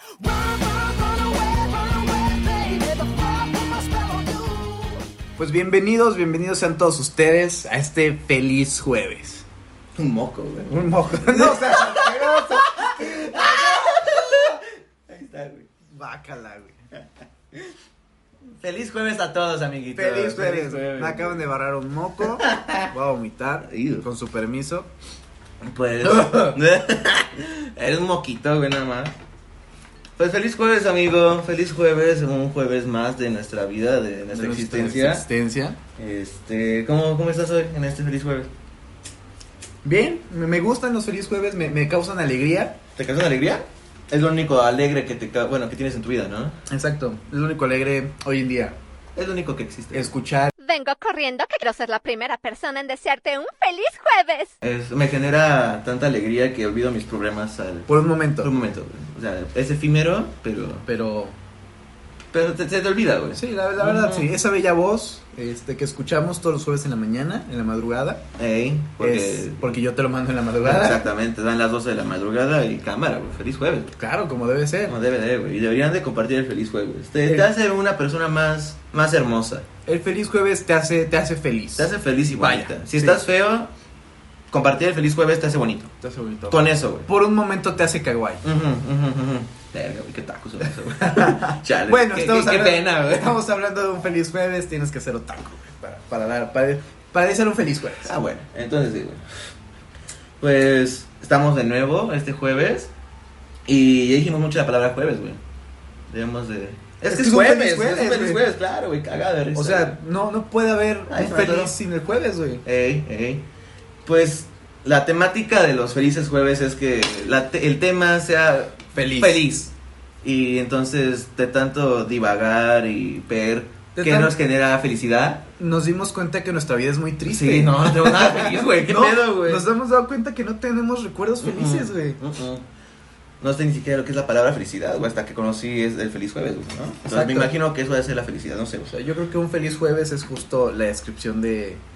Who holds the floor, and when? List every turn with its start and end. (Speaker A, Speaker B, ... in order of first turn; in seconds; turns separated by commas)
Speaker A: 0.2-5.0, Speaker B: 5.4-9.5, Speaker C: 10.0-15.7, Speaker B: 10.7-14.3, Speaker B: 15.9-16.8, Speaker C: 18.6-21.4, Speaker B: 19.9-24.9, Speaker C: 22.4-22.9, Speaker C: 23.6-24.1, Speaker C: 25.6-29.1, Speaker B: 26.1-26.6, Speaker C: 30.2-35.2, Speaker B: 34.3-35.8, Speaker C: 36.0-38.5, Speaker B: 39.8-42.8, Speaker C: 43.0-46.6, Speaker B: 46.7-48.8, Speaker C: 49.2-50.1, Speaker B: 49.9-50.5, Speaker D: 50.6-54.5, Speaker C: 54.6-60.9, Speaker B: 57.9-58.5, Speaker B: 60.9-61.4, Speaker C: 62.3-64.3, Speaker B: 63.4-68.2, Speaker C: 68.4-69.8, Speaker B: 69.0-71.0, Speaker C: 70.6-73.9, Speaker B: 74.0-75.0, Speaker C: 74.9-79.7, Speaker B: 79.9-83.2, Speaker C: 81.8-83.7, Speaker C: 84.5-85.9, Speaker B: 86.0-88.4, Speaker C: 86.5-87.1, Speaker C: 88.4-93.4, Speaker B: 91.0-98.1, Speaker C: 98.0-99.2, Speaker C: 100.4-102.9, Speaker C: 103.7-105.4, Speaker C: 106.1-110.0, Speaker B: 107.1-108.4, Speaker B: 109.5-112.6, Speaker C: 111.1-111.7, Speaker C: 112.6-113.5, Speaker C: 114.0-119.7, Speaker B: 118.9-119.6, Speaker C: 120.2-125.5, Speaker B: 124.0-124.3, Speaker B: 125.6-132.2, Speaker C: 127.2-129.7, Speaker C: 131.4-132.7, Speaker C: 133.4-138.9, Speaker B: 137.1-137.5, Speaker B: 138.9-141.8